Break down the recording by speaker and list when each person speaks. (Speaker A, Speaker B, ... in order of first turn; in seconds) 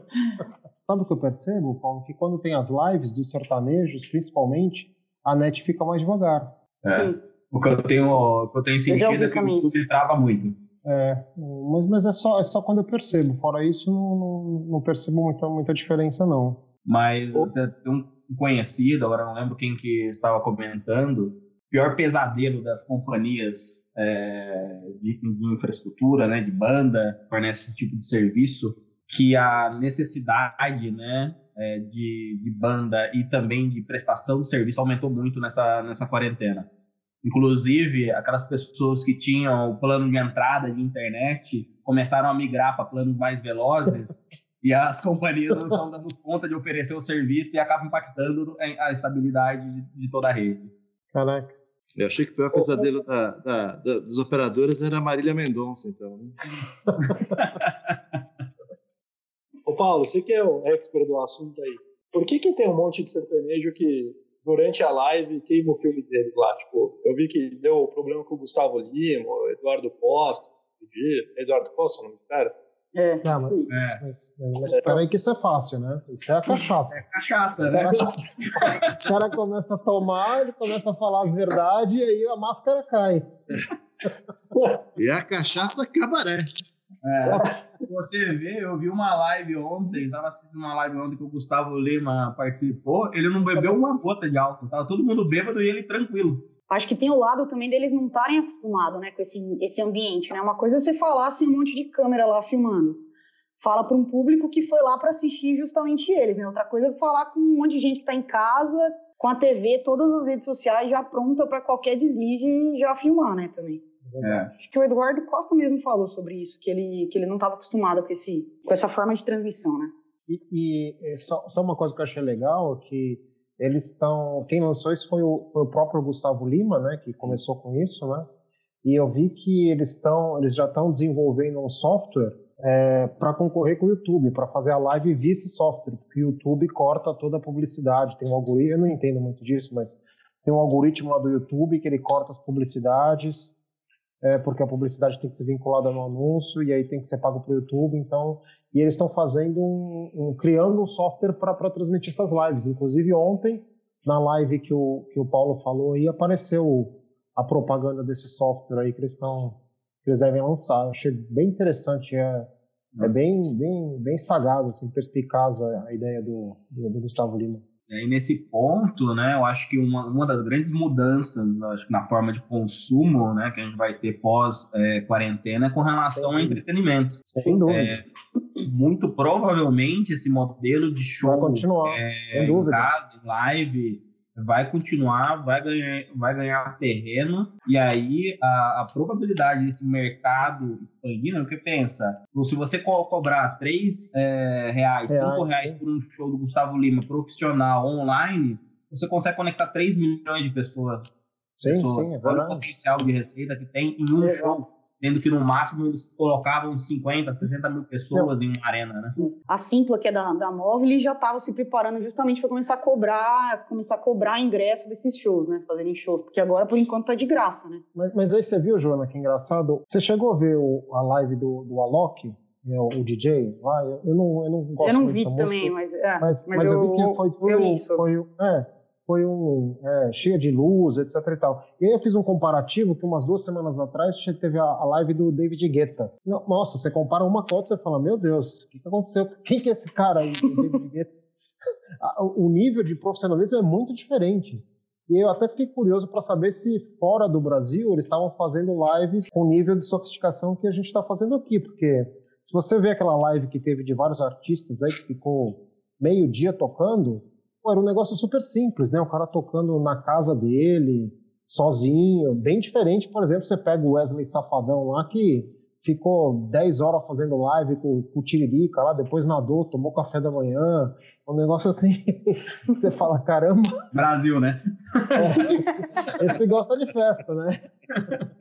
Speaker A: 0.8-6.5, 10.8-16.6, 51.1-51.5, 73.2-77.0, 77.8-78.1, 79.0-83.3, 114.0-114.4, 120.3-128.3, 128.8-143.5, 144.2-162.5, 163.0-167.6, 176.0-176.6, 177.2-178.0, 181.2-182.9, 195.1-195.8, 201.6-202.6, 217.9-241.1, 242.0-273.8, 275.2-275.7, 276.2-277.6
Speaker B: 6.8-10.6, 16.8-36.7, 37.2-50.7, 57.0-58.0, 73.7-74.0, 76.9-79.1, 87.0-96.5, 114.2-114.5, 167.9-178.0, 178.6-201.1, 201.6-209.2, 273.9-276.4
Speaker C: 6.8-7.2, 8.9-9.7, 72.9-73.7, 93.6-93.9, 96.7-103.0, 103.6-113.8, 114.5-119.9, 204.2-204.7, 209.2-217.8, 224.8-228.0
Speaker D: 52.0-56.4, 85.0-86.5
Speaker E: 52.5-52.9, 59.7-72.5, 74.7-75.0